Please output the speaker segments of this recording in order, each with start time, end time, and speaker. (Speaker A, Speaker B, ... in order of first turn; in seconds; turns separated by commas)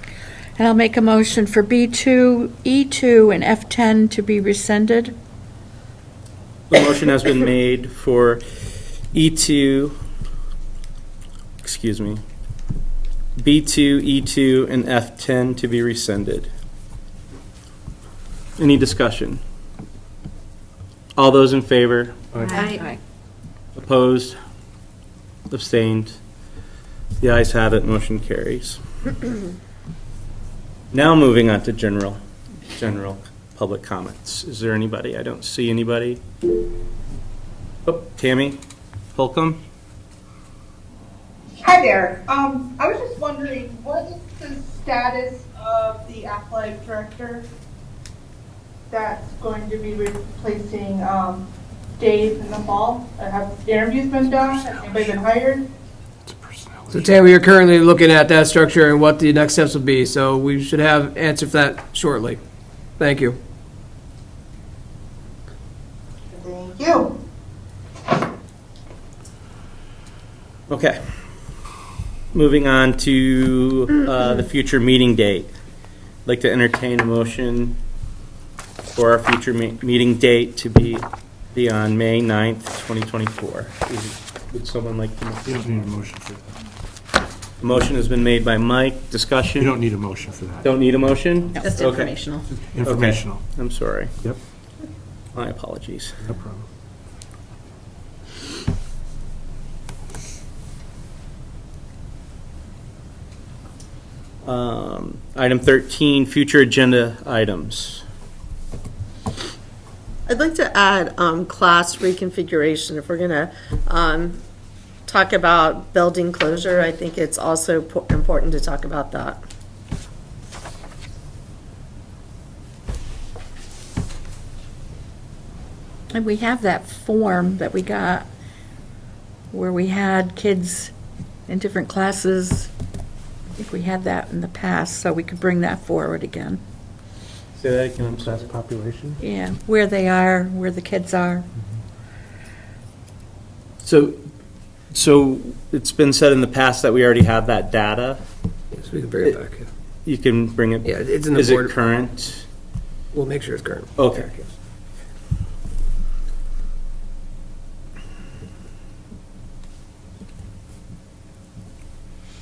Speaker A: 0.6-5.1, Speaker B: 6.7-9.9, Speaker B: 11.6-12.2, Speaker B: 13.4-16.5, Speaker B: 18.6-19.4, Speaker B: 21.1-22.2, Speaker C: 22.3-22.6, Speaker A: 22.5-22.9, Speaker B: 23.8-24.4, Speaker B: 25.5-26.2, Speaker B: 27.2-28.8, Speaker B: 30.9-36.2, Speaker B: 37.9-38.6, Speaker B: 39.1-39.6, Speaker D: 41.6-47.5, Speaker D: 48.9-51.5, Speaker D: 52.0-55.7, Speaker C: 56.2-57.3, Speaker E: 56.9-62.4, Speaker E: 63.0-63.4, Speaker D: 66.3-67.1, Speaker B: 70.7-71.0, Speaker B: 72.3-75.5, Speaker B: 76.2-77.8, Speaker B: 78.9-85.5, Speaker C: 85.4-86.5, Speaker B: 87.6-89.8, Speaker C: 89.6-90.6, Speaker B: 90.6-92.2, Speaker F: 91.6-92.5, Speaker C: 92.5-93.6, Speaker B: 92.8-94.1, Speaker B: 95.3-96.2, Speaker C: 96.2-96.6, Speaker B: 104.4-108.0, Speaker F: 110.3-114.4, Speaker F: 115.0-119.4, Speaker A: 126.1-128.3, Speaker A: 129.5-130.9, Speaker A: 131.5-132.7, Speaker A: 133.6-136.6, Speaker B: 137.6-138.5, Speaker C: 138.0-139.2, Speaker A: 139.2-141.4, Speaker B: 143.8-144.2, Speaker B: 144.9-148.2, Speaker E: 148.7-149.7, Speaker B: 150.0-152.5, Speaker E: 150.8-151.7, Speaker E: 153.1-154.4, Speaker B: 154.0-154.3